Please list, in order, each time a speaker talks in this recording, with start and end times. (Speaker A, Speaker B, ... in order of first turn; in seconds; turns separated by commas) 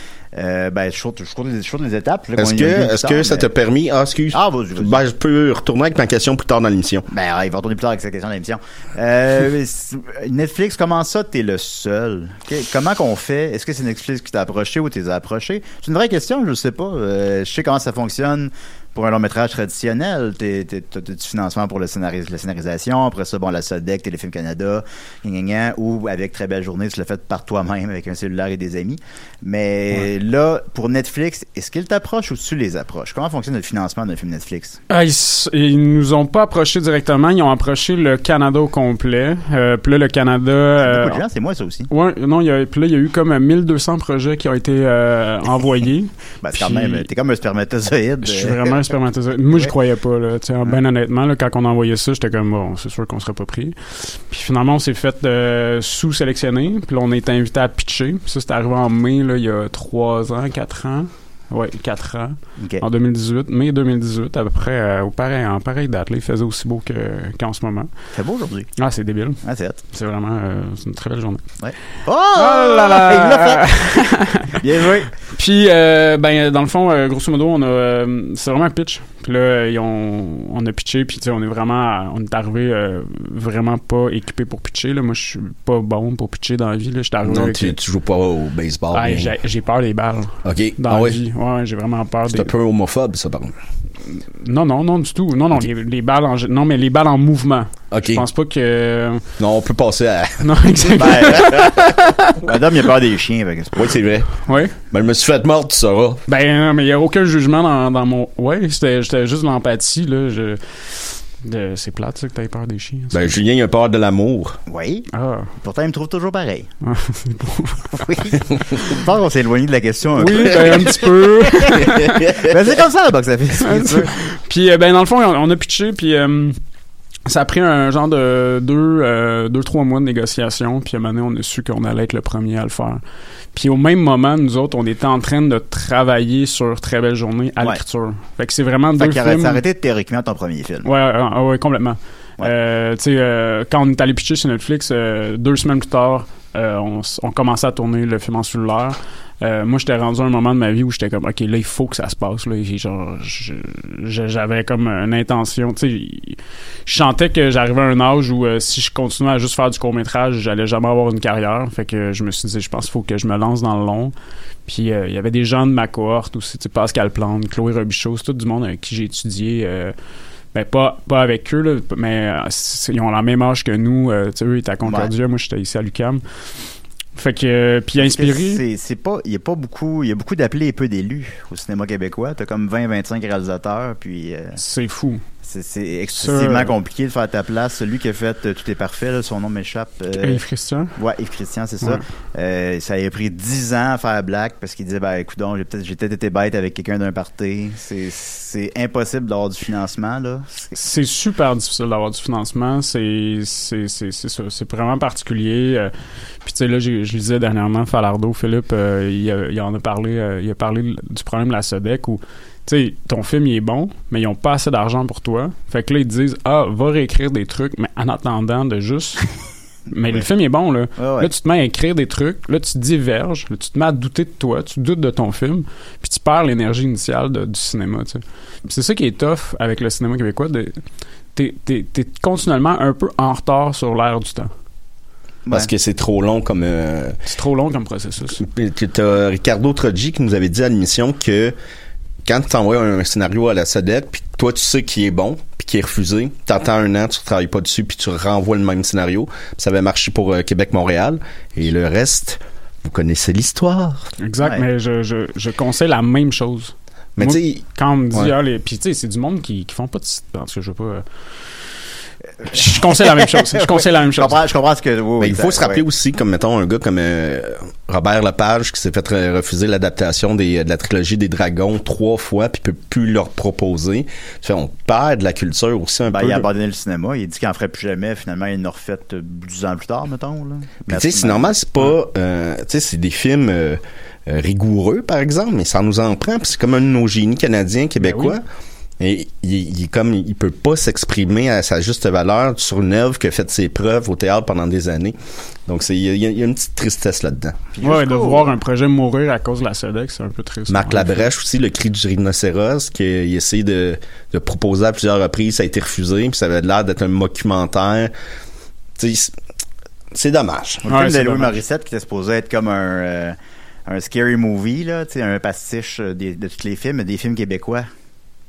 Speaker A: 0.3-3.5, Speaker B: 2.4-7.1, Speaker A: 4.3-5.0, Speaker A: 7.1-34.8, Speaker C: 34.9-41.2, Speaker A: 40.8-41.9, Speaker C: 41.9-47.1, Speaker A: 46.4-48.8, Speaker C: 48.2-67.9, Speaker A: 62.6-62.8, Speaker A: 68.1-68.8, Speaker C: 68.8-71.5, Speaker A: 69.4-69.8, Speaker A: 71.6-75.1, Speaker C: 72.3-74.5, Speaker C: 75.3-87.8, Speaker B: 87.3-89.3, Speaker C: 88.9-92.5, Speaker B: 90.4-91.2, Speaker B: 92.3-93.5, Speaker C: 94.1-99.3, Speaker B: 97.9-98.2, Speaker B: 99.4-100.9, Speaker C: 100.4-102.4, Speaker A: 101.0-104.0, Speaker B: 103.8-106.2, Speaker C: 104.5-104.8, Speaker C: 106.3-113.3, Speaker B: 113.1-114.6, Speaker A: 114.7-116.7, Speaker C: 115.1-115.5, Speaker C: 116.8-118.0, Speaker A: 117.9-124.1, Speaker C: 120.2-122.3, Speaker B: 121.7-122.6, Speaker C: 123.6-126.6, Speaker C: 127.3-133.0, Speaker C: 133.5-139.6, Speaker A: 139.0-140.9, Speaker C: 140.8-164.1, Speaker C: 164.7-169.9, Speaker C: 170.5-176.5, Speaker A: 174.8-175.1, Speaker C: 177.2-178.6, Speaker A: 178.0-184.6, Speaker C: 184.6-185.2, Speaker A: 185.4-190.4, Speaker C: 186.2-186.7, Speaker C: 190.2-190.9, Speaker A: 191.0-200.8, Speaker C: 200.8-219.3, Speaker C: 219.9-230.8, Speaker A: 221.0-221.3, Speaker C: 231.3-234.5, Speaker B: 235.5-237.2, Speaker C: 237.3-238.4, Speaker B: 238.4-241.5, Speaker B: 242.2-254.2, Speaker C: 254.2-261.7, Speaker B: 257.2-258.3, Speaker C: 262.4-264.4, Speaker A: 262.6-265.8, Speaker B: 265.2-276.5, Speaker A: 276.1-281.5, Speaker B: 280.9-288.4, Speaker C: 288.0-288.4, Speaker B: 289.0-297.6, Speaker A: 297.8-298.5, Speaker C: 297.8-301.2, Speaker B: 300.7-308.1, Speaker B: 309.0-309.4, Speaker B: 310.1-310.9, Speaker A: 310.9-317.9, Speaker C: 310.9-311.6